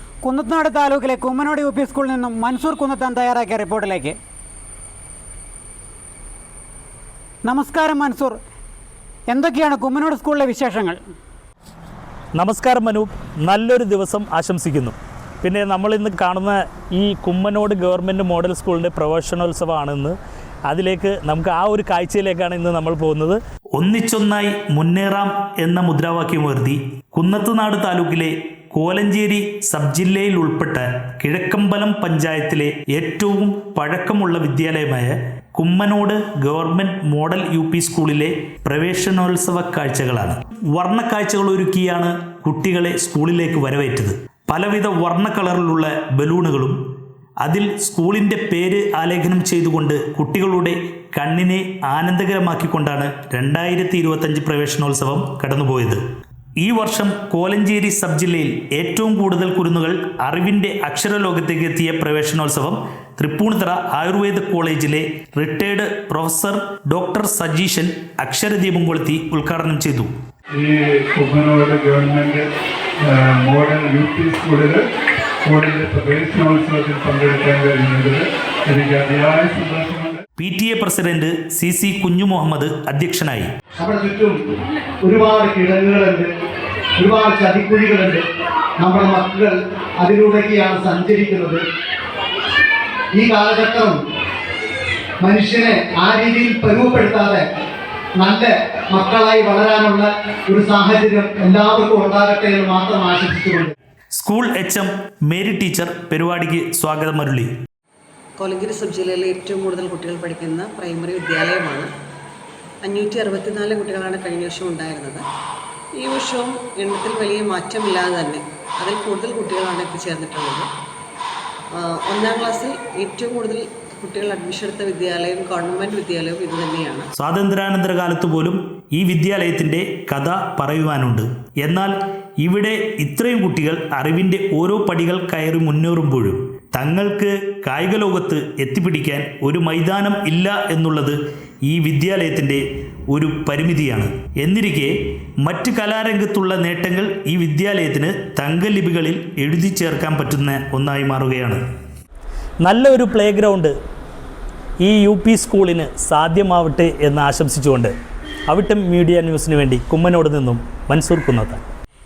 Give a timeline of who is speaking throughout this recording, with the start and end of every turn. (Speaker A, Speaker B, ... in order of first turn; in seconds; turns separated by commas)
Speaker A: 0.2-4.2, Speaker A: 7.5-8.4, Speaker A: 9.3-11.0, Speaker B: 12.3-20.2, Speaker B: 20.7-46.8, Speaker B: 47.4-56.0, Speaker B: 56.6-70.1, Speaker C: 70.5-72.5, Speaker C: 73.0-74.8, Speaker C: 75.5-80.2, Speaker B: 80.4-83.5, Speaker D: 83.8-84.4, Speaker D: 85.0-86.3, Speaker D: 87.0-88.2, Speaker D: 88.8-91.6, Speaker D: 93.1-94.0, Speaker D: 95.2-97.4, Speaker D: 98.2-103.7, Speaker B: 104.2-107.5, Speaker E: 108.4-111.9, Speaker E: 112.8-115.2, Speaker E: 116.0-120.7, Speaker E: 121.8-127.1, Speaker B: 127.1-144.9, Speaker B: 145.4-151.6, Speaker B: 152.6-153.7, Speaker B: 154.8-157.9, Speaker B: 158.5-161.6